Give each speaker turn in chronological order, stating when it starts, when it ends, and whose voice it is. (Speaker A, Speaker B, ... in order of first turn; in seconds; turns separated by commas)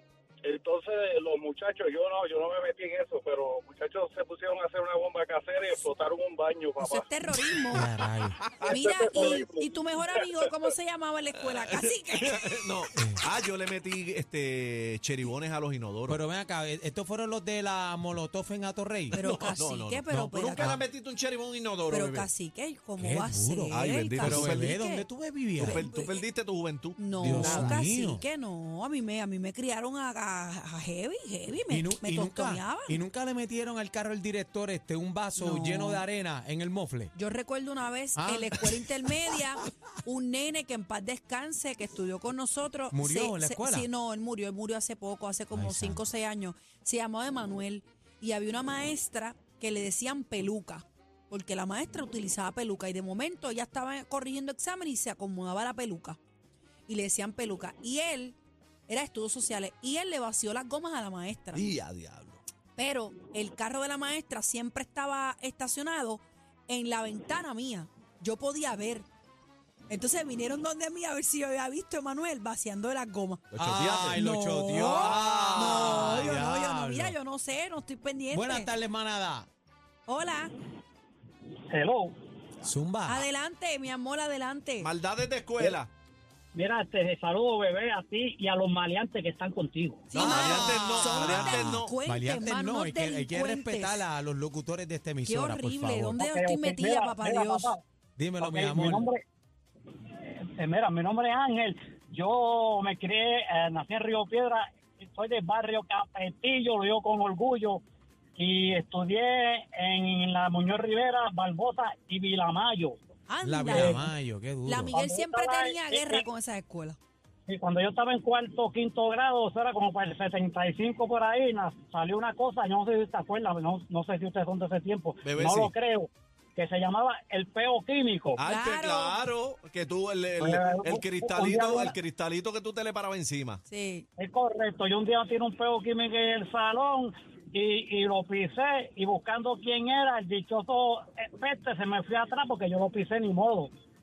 Speaker A: 0.4-7.1, Speaker B: 6.8-7.9, Speaker C: 7.7-8.5, Speaker D: 8.4-8.8, Speaker B: 8.6-12.6, Speaker A: 8.6-10.2, Speaker D: 11.6-16.2, Speaker C: 13.0-13.2, Speaker C: 16.1-19.2, Speaker D: 19.1-22.3, Speaker B: 19.1-20.8, Speaker C: 20.1-20.8, Speaker B: 21.9-25.1, Speaker C: 23.0-25.8, Speaker D: 23.7-24.8, Speaker D: 25.6-27.8, Speaker B: 25.6-26.2, Speaker B: 27.0-33.0, Speaker C: 27.2-28.2, Speaker C: 31.7-37.1, Speaker B: 35.4-36.0, Speaker B: 37.1-56.2, Speaker C: 38.2-39.4, Speaker C: 42.9-43.9, Speaker C: 45.5-46.0, Speaker B: 56.9-58.4, Speaker B: 58.9-61.7, Speaker D: 61.5-62.4, Speaker B: 62.8-69.1, Speaker B: 69.9-73.5, Speaker D: 73.5-76.4, Speaker C: 73.6-77.2, Speaker B: 74.1-78.7, Speaker C: 78.3-79.5, Speaker B: 80.1-80.5, Speaker E: 81.7-82.2, Speaker C: 82.6-83.3, Speaker B: 83.1-84.9, Speaker D: 84.8-85.9, Speaker E: 86.5-90.1, Speaker B: 90.1-94.0, Speaker D: 90.1-92.0, Speaker C: 90.2-96.2, Speaker B: 95.3-97.7, Speaker E: 96.2-97.8, Speaker C: 98.2-99.1, Speaker E: 98.4-99.2, Speaker E: 100.4-107.8, Speaker E: 108.4-113.0, Speaker B: 113.3-114.1, Speaker C: 113.4-115.0, Speaker E: 113.7-114.0, Speaker B: 114.7-117.0, Speaker E: 114.9-116.2, Speaker E: 117.5-128.4, Speaker D: 125.2-125.7, Speaker D: 128.4-133.6, Speaker B: 128.4-129.2, Speaker E: 130.4-132.0, Speaker B: 133.7-134.1, Speaker E: 134.2-143.7